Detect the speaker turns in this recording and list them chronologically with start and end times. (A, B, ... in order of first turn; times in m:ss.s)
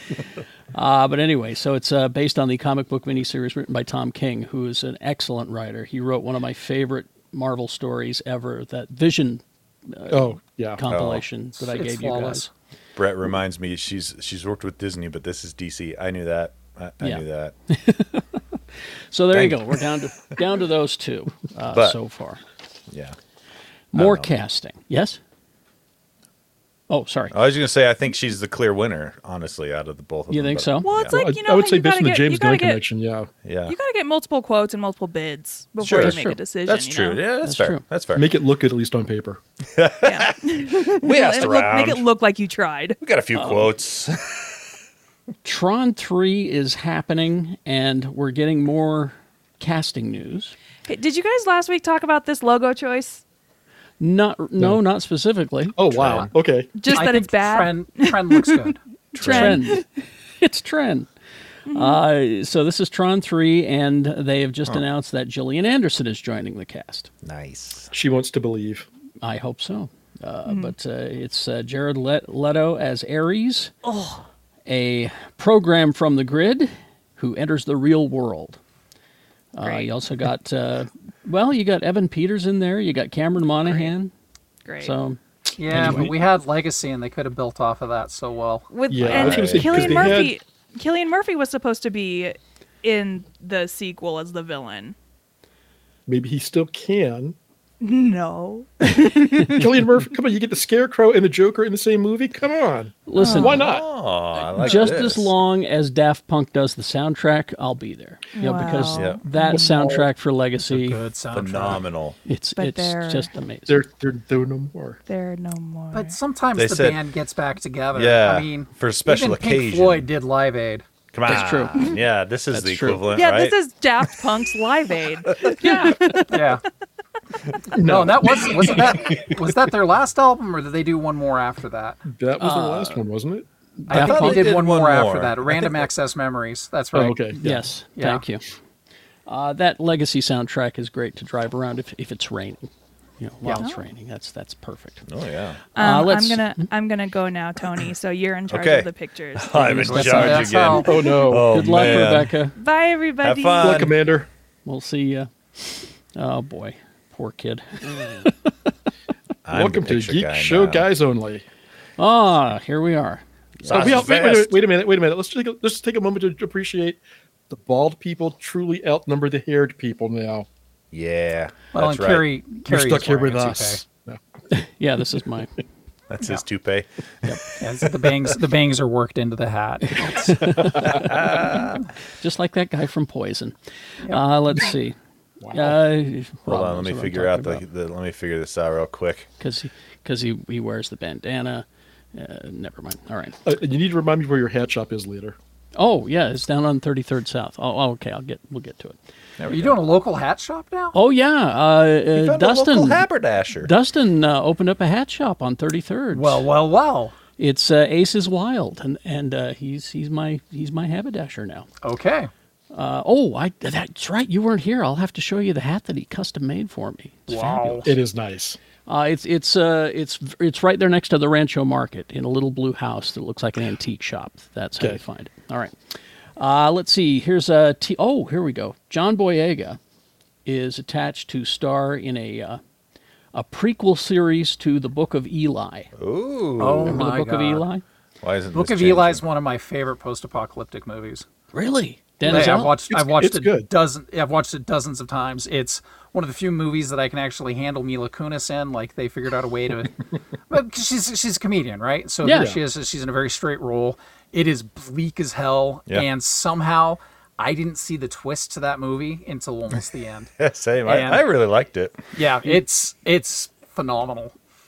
0:00.7-0:12.5 A
0:10.1-0:10.8 B
0:10.9-0:11.2 C
0:11.6-0:12.5 D
0:13.0-0:17.6 C
0:17.0-0:18.6 A
0:19.1-0:22.4 A
0:19.3-0:19.8 C
0:22.9-0:23.2 C
0:23.9-0:25.2 A
0:24.0-0:24.3 C
0:26.9-0:27.4 A
0:27.3-0:31.2 C
0:30.3-0:30.9 A
0:30.8-0:32.8 E
0:31.1-0:33.3 B
0:33.4-0:33.8 C
0:33.7-0:37.2 E
0:35.8-0:38.3 C
0:35.9-0:36.4 A
0:37.4-0:37.8 A
0:38.2-0:39.4 B
0:39.8-0:42.1 C
0:40.0-0:43.0 E
0:43.0-0:44.6 C
0:43.3-0:43.7 A
0:45.4-0:50.5 A
0:50.9-0:53.2 E
0:54.0-0:55.8 A
0:55.8-0:56.8 B
0:55.8-0:56.3 C
0:56.8-0:59.8 E
0:56.8-0:58.8 D
0:59.2-0:59.6 C
0:59.2-0:59.9 A
1:00.4-1:01.1 A
1:01.7-1:02.0 E
1:01.7-1:07.1 A
1:07.2-1:07.9 C
1:07.9-1:08.9 B
1:09.2-1:13.7 A
1:10.5-1:10.7 E
1:13.8-1:14.2 E
1:14.7-1:18.6 A
1:19.5-1:24.1 A
1:19.6-1:19.9 E
1:24.7-1:25.0 E
1:24.8-1:26.1 A
1:25.6-1:28.7 D
1:25.7-1:26.1 B
1:28.7-1:35.0 E
1:28.9-1:30.4 B
1:29.0-1:30.2 A
1:29.2-1:29.9 C
1:36.1-1:37.4 B
1:37.8-1:39.8 E
1:39.4-1:43.9 B
1:43.1-1:43.7 A
1:43.2-1:43.7 E
1:43.5-1:45.3 C
1:44.5-1:51.0 A
1:48.4-1:49.8 E
1:48.9-1:49.2 C
1:49.6-1:50.1 B
1:50.7-1:51.8 D
1:51.3-1:52.2 C
1:52.2-1:53.8 A
1:52.6-1:53.3 E
1:53.7-1:55.0 B
1:55.1-1:56.2 E
1:55.9-2:00.8 D
1:56.6-1:57.0 C
1:57.9-2:00.1 C
2:01.1-2:03.6 C
2:01.3-2:02.0 A
2:02.5-2:03.1 A
2:03.1-2:06.6 E
2:06.3-2:06.6 D
2:07.7-2:09.4 B
2:07.8-2:12.0 D
2:12.0-2:13.5 B
2:12.4-2:13.0 A
2:13.8-2:14.6 A
2:13.9-2:17.3 D
2:13.9-2:15.9 C
2:16.9-2:17.6 B
2:17.4-2:18.4 A
2:18.0-2:18.2 D
2:19.3-2:25.1 A
2:23.6-2:23.8 E
2:25.1-2:25.6 C
2:25.8-2:31.4 E
2:25.8-2:26.6 A
2:28.5-2:32.4 C
2:29.8-2:30.9 D
2:29.9-2:30.4 A
2:30.8-2:31.5 B
2:31.4-2:32.6 A
2:32.6-2:33.9 E
2:33.2-2:34.0 C
2:33.6-2:34.3 B
2:34.7-2:38.5 A
2:39.5-2:40.9 C
2:39.5-2:41.4 B
2:42.0-2:44.1 A
2:43.7-2:44.6 C
2:43.7-2:50.5 B
2:50.9-2:52.3 C
2:51.7-2:53.8 D
2:52.7-2:54.2 B
2:54.5-2:55.5 A
2:56.1-2:57.3 C
2:57.6-3:00.3 D
2:59.9-3:05.0 A
3:00.6-3:01.0 B
3:00.8-3:01.8 C
3:05.4-3:05.7 B
3:05.5-3:07.6 A
3:06.5-3:09.3 C
3:09.4-3:13.4 A
3:13.4-3:15.4 B
3:15.8-3:19.0 A
3:19.4-3:19.8 C
3:19.5-3:21.0 D
3:20.9-3:23.1 A
3:22.1-3:23.7 C
3:23.6-3:26.4 A
3:26.1-3:27.2 D
3:27.4-3:31.7 A
3:31.8-3:32.3 D
3:32.7-3:37.9 A
3:37.3-3:37.9 D
3:37.8-3:38.6 B
3:38.9-3:45.8 A
3:46.4-3:49.8 A
3:50.5-3:52.6 A
3:53.3-3:55.9 A
3:56.0-3:57.0 C
3:56.6-3:57.6 D
3:56.8-3:57.8 A
3:58.2-3:59.2 C
3:58.5-4:01.2 D
4:01.5-4:02.8 A
4:02.2-4:03.7 B
4:02.2-4:10.0 D
4:10.5-4:20.3 D
4:12.2-4:12.6 A
4:12.3-4:12.6 B
4:20.4-4:22.0 C
4:20.8-4:21.2 D
4:22.1-4:24.3 D